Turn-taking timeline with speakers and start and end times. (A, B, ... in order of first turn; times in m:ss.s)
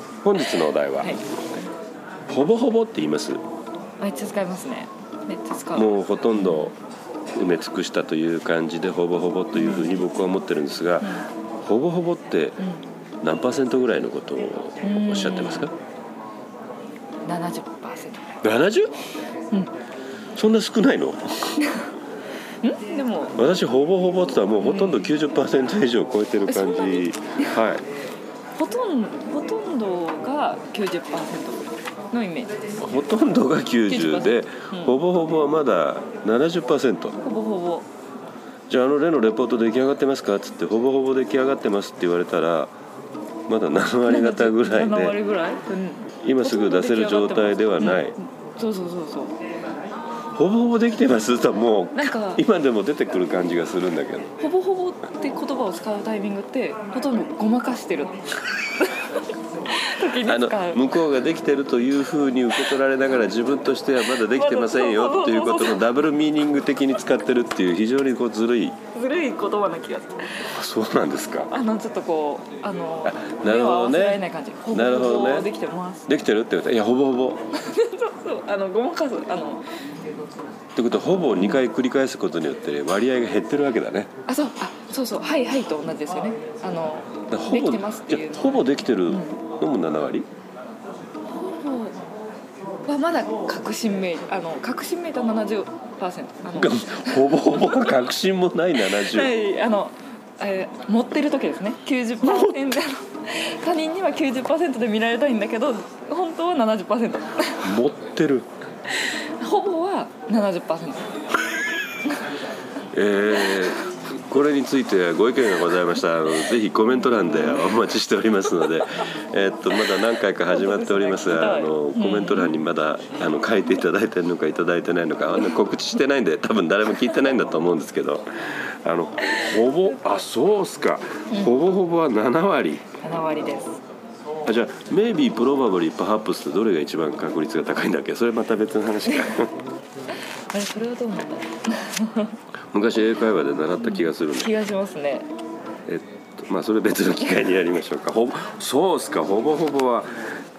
0:00.2-0:01.2 A
0:01.0-0:01.2 B
0:02.3-0:03.4 A
0:04.0-0:06.7 B
0:05.7-0:06.8 A
0:07.3-0:12.6 A
0:09.5-0:10.0 B
0:11.0-0:11.2 B
0:12.6-0:12.8 B
0:13.2-0:15.7 A
0:14.8-0:15.7 B
0:17.2-0:18.4 B
0:18.4-0:18.9 A
0:20.4-0:21.2 A
0:21.6-0:21.8 B
0:22.6-0:23.4 B
0:23.4-0:27.8 A
0:24.6-0:25.1 B
0:26.5-0:27.6 B
0:28.6-0:32.6 B
0:32.8-0:37.2 A
0:33.9-0:35.0 B
0:37.2-0:37.9 B
0:38.7-0:42.7 A
0:43.5-0:45.2 A
0:44.1-0:49.4 B
0:46.2-0:48.2 A
0:50.3-0:54.3 A
0:51.9-0:52.4 B
0:54.4-1:00.8 B
1:00.2-1:08.8 A
1:04.1-1:05.8 B
1:08.9-1:10.5 B
1:10.4-1:11.5 A
1:11.5-1:16.1 B
1:13.0-1:15.5 A
1:16.1-1:17.4 A
1:17.5-1:19.6 B
1:20.8-1:24.1 A
1:24.3-1:29.4 B
1:27.3-1:30.3 A
1:31.4-1:32.0 B
1:32.8-1:38.0 B
1:36.5-1:39.3 A
1:38.8-1:47.7 B
1:42.2-1:42.6 A
1:47.6-1:48.5 A
1:48.9-1:51.1 B
1:52.9-2:12.8 A
1:57.1-1:57.6 B
2:00.4-2:02.5 B
2:11.3-2:11.6 B
2:13.0-2:13.8 B
2:14.4-2:19.5 A
2:19.1-2:19.3 B
2:20.5-2:22.4 B
2:22.7-2:24.5 A
2:23.8-2:25.3 B
2:25.8-2:30.1 A